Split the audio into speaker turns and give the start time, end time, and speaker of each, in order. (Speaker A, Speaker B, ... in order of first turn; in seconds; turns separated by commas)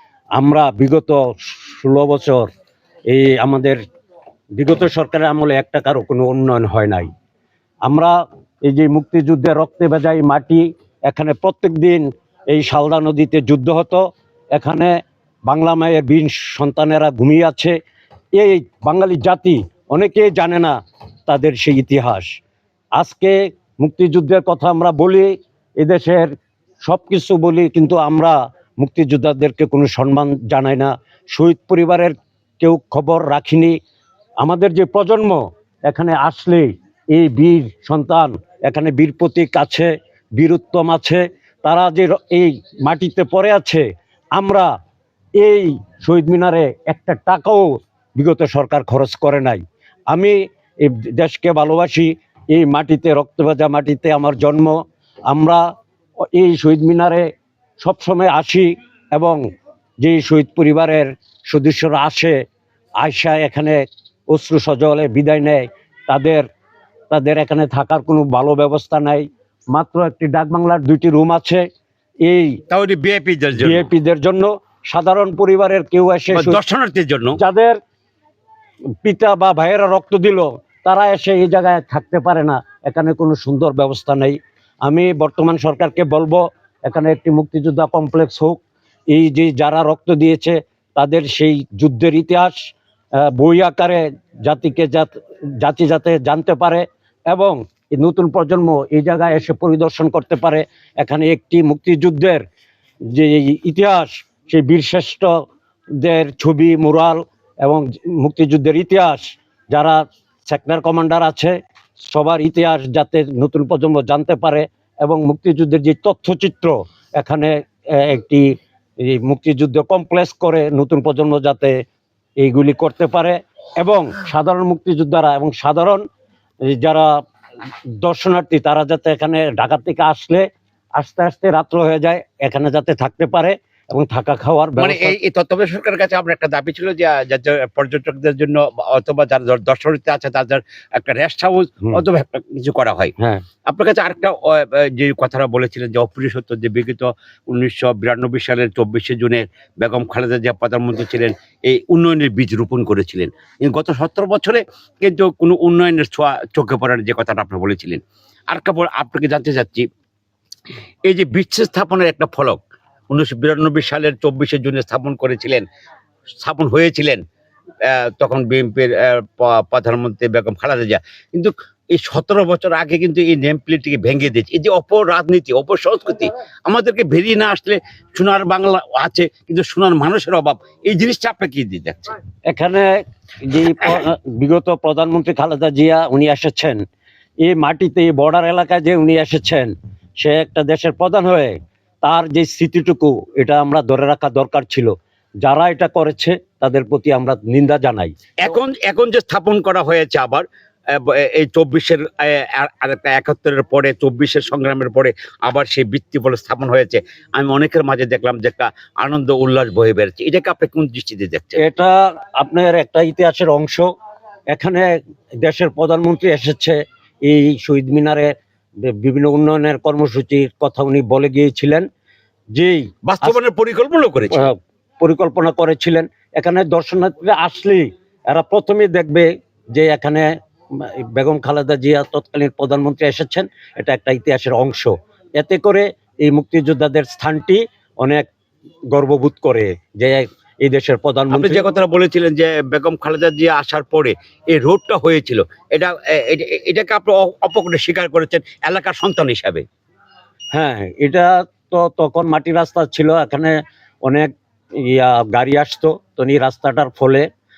Speaker A: 0.3-2.5, Speaker A: 3.1-3.8, Speaker A: 4.5-7.1, Speaker A: 7.8-14.0, Speaker A: 14.5-14.9, Speaker A: 15.5-17.7, Speaker A: 18.3-22.3, Speaker A: 22.9-26.3, Speaker A: 26.8-33.7, Speaker A: 34.4-43.8, Speaker A: 44.3-44.7, Speaker A: 45.4-54.8, Speaker A: 55.3-55.6, Speaker A: 56.3-57.2, Speaker A: 57.8-59.4, Speaker A: 60.0-62.4, Speaker A: 63.0-63.8, Speaker A: 64.3-66.4, Speaker A: 67.1-71.6, Speaker A: 72.2-72.6, Speaker B: 72.7-73.9, Speaker A: 73.6-76.6, Speaker B: 76.3-77.4, Speaker A: 77.4-77.8, Speaker A: 79.0-92.6, Speaker A: 93.2-95.1, Speaker A: 95.6-102.4, Speaker A: 103.1-105.3, Speaker A: 106.0-118.4, Speaker A: 119.0-121.8, Speaker A: 122.4-126.0, Speaker A: 126.7-127.1, Speaker A: 128.0-130.4, Speaker A: 130.9-135.2, Speaker B: 134.8-143.1, Speaker A: 143.2-143.4, Speaker B: 143.7-159.8, Speaker B: 161.1-162.6, Speaker B: 163.1-165.6, Speaker B: 166.4-167.2, Speaker B: 167.8-182.2, Speaker A: 182.5-186.8, Speaker A: 187.4-198.1, Speaker B: 198.4-211.6, Speaker A: 211.6-213.9, Speaker A: 214.5-218.3, Speaker A: 218.8-221.8, Speaker A: 222.5-223.4, Speaker B: 223.0-224.5, Speaker A: 224.3-238.3, Speaker A: 238.9-241.6, Speaker B: 241.3-249.6, Speaker A: 250.5-257.2